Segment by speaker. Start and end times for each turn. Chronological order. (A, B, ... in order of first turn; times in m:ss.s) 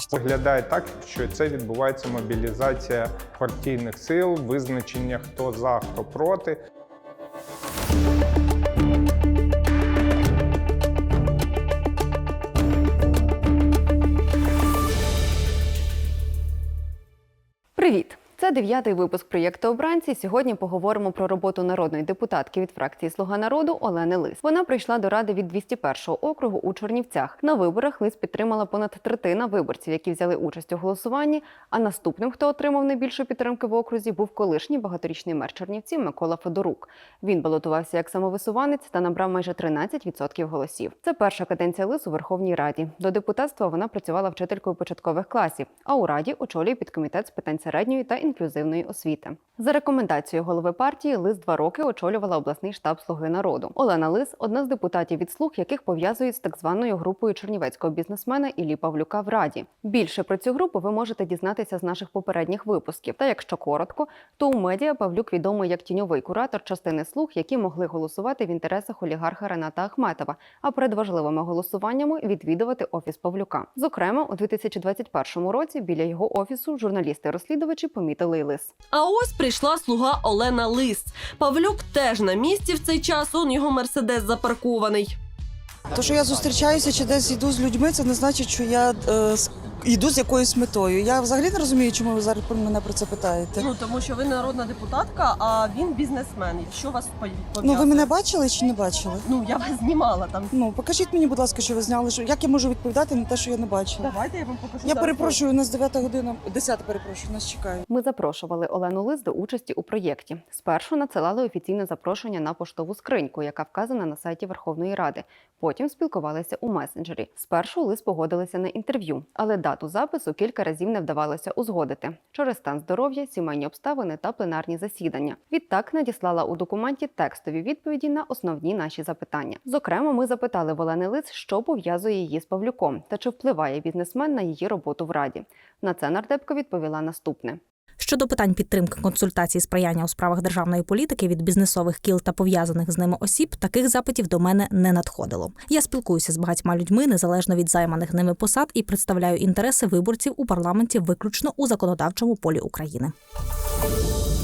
0:00.1-0:06.6 A
0:17.8-1:18.7 B
1:18.9-1:25.2 C
1:25.9-1:33.7 D
1:33.6-1:38.1 C
1:37.6-1:39.3 D
1:39.3-1:40.5 C
1:40.5-1:44.2 D
1:44.0-1:45.4 C
1:44.8-1:47.8 D
1:47.9-2:17.6 B
2:18.0-2:33.1 E